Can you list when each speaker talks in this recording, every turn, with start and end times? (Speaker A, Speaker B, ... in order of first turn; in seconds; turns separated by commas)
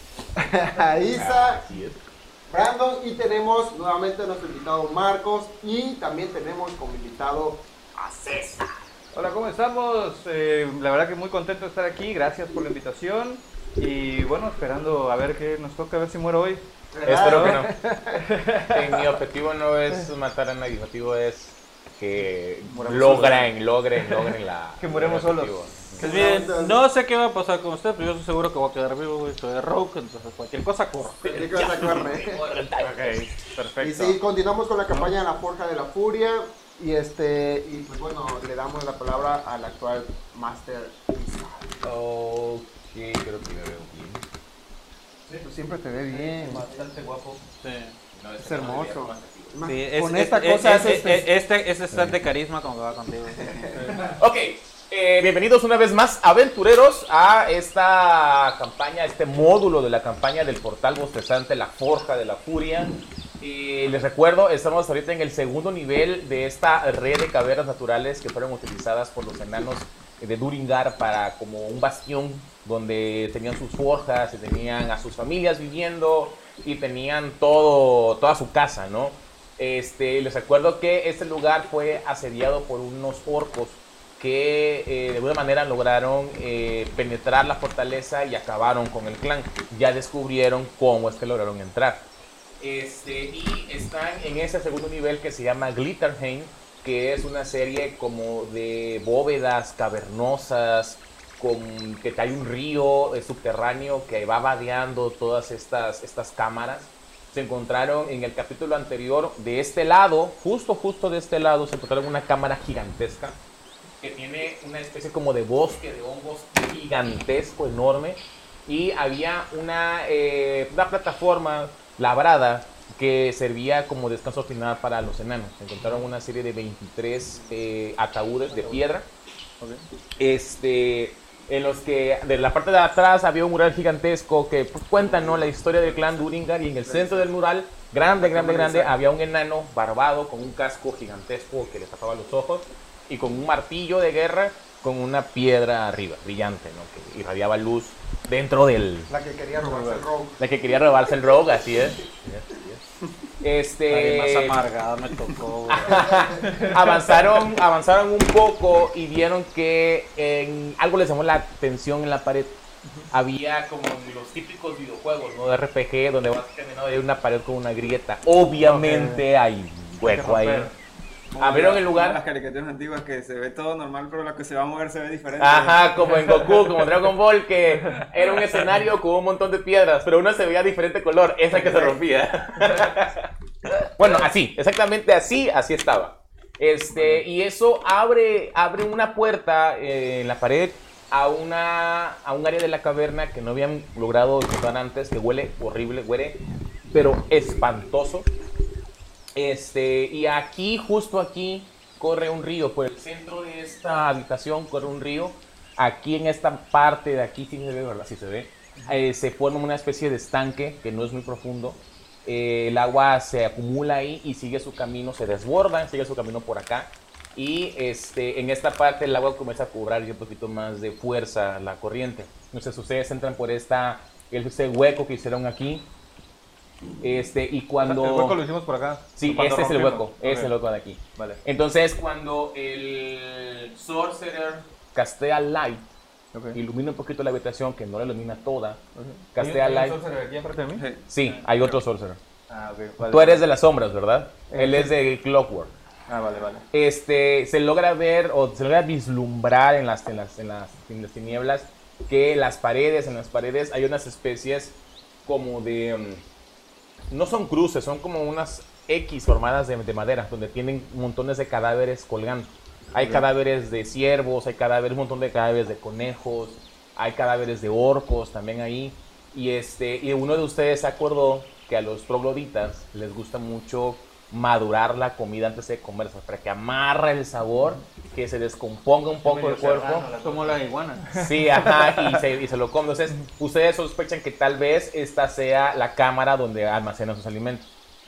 Speaker A: 0.4-1.6, Speaker B: 1.1-2.0, Speaker A: 2.5-8.8, Speaker C: 9.1-16.6, Speaker A: 16.9-18.2, Speaker B: 17.0-17.7, Speaker C: 17.3-19.0, Speaker B: 18.7-26.2, Speaker C: 22.7-25.5, Speaker A: 26.0-26.8, Speaker D: 26.0-32.0, Speaker A: 31.2-32.4, Speaker B: 31.2-33.2, Speaker D: 32.8-34.2, Speaker A: 33.8-41.8, Speaker B: 41.8-44.2, Speaker A: 45.4-46.6, Speaker C: 46.1-47.4, Speaker D: 47.6-47.9, Speaker B: 48.1-49.6, Speaker A: 48.4-51.3, Speaker D: 49.6-53.7, Speaker B: 51.9-52.2, Speaker A: 53.4-53.7, Speaker C: 53.7-54.1, Speaker B: 54.1-92.1, Speaker B: 92.6-113.4, Speaker B: 114.0-129.1, Speaker C: 125.8-126.1, Speaker C: 128.5-128.8, Speaker C: 129.6-129.8, Speaker B: 130.2-149.1, Speaker A: 136.9-137.2, Speaker C: 138.5-138.8, Speaker A: 149.1-150.4, Speaker C: 149.6-150.1, Speaker B: 150.4-152.8, Speaker B: 153.4-154.6, Speaker D: 153.9-156.9, Speaker B: 155.7-162.6, Speaker B: 163.1-170.7, Speaker C: 168.6-169.2, Speaker C: 170.1-170.7, Speaker E: 171.3-175.9, Speaker B: 171.4-172.2, Speaker B: 175.4-183.3, Speaker B: 184.0-196.4, Speaker C: 186.9-187.2, Speaker B: 196.9-198.3, Speaker B: 199.3-225.9, Speaker B: 227.0-228.4, Speaker C: 227.8-230.5, Speaker B: 229.2-235.8, Speaker C: 231.2-231.4, Speaker C: 236.3-236.6, Speaker B: 236.5-238.8, Speaker C: 238.9-240.8, Speaker B: 239.3-240.0, Speaker E: 240.8-241.8, Speaker B: 241.1-242.2, Speaker C: 242.5-243.5, Speaker B: 243.1-245.7, Speaker C: 244.5-244.9, Speaker C: 246.1-246.7, Speaker B: 246.7-256.2, Speaker B: 257.1-280.1, Speaker C: 263.0-263.3, Speaker C: 279.2-282.1, Speaker D: 280.2-281.1, Speaker B: 281.1-287.7